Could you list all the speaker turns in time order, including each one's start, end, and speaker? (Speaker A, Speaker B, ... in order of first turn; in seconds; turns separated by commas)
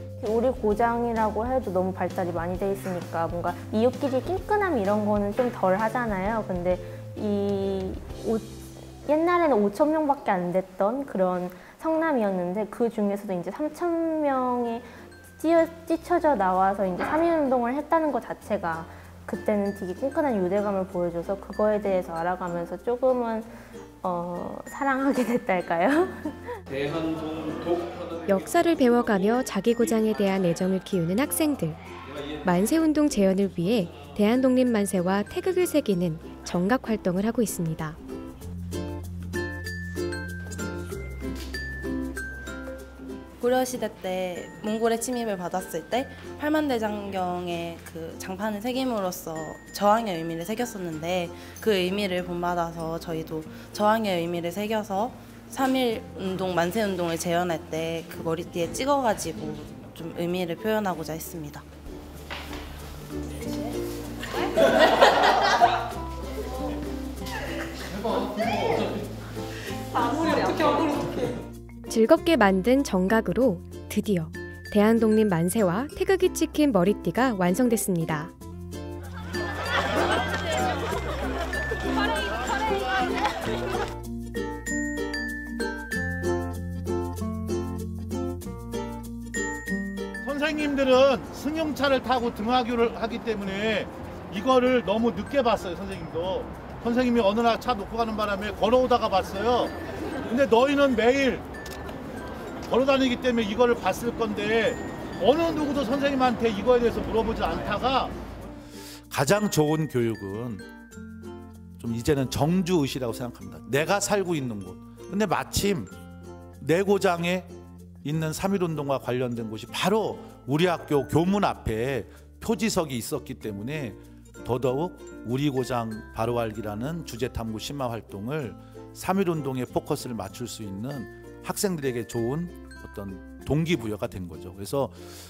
Speaker A: 0.2-26.6, Speaker B: 28.3-31.8, Speaker B: 32.4-38.0, Speaker C: 43.4-61.6, Speaker B: 71.9-78.3, Speaker D: 90.4-93.7, Speaker D: 96.9-97.5, Speaker D: 98.2-98.7, Speaker E: 99.1-99.7, Speaker D: 100.5-101.2, Speaker D: 102.8-104.6, Speaker D: 105.7-108.0, Speaker E: 109.1-110.7, Speaker E: 111.8-115.9, Speaker E: 116.6-117.5, Speaker E: 118.0-135.0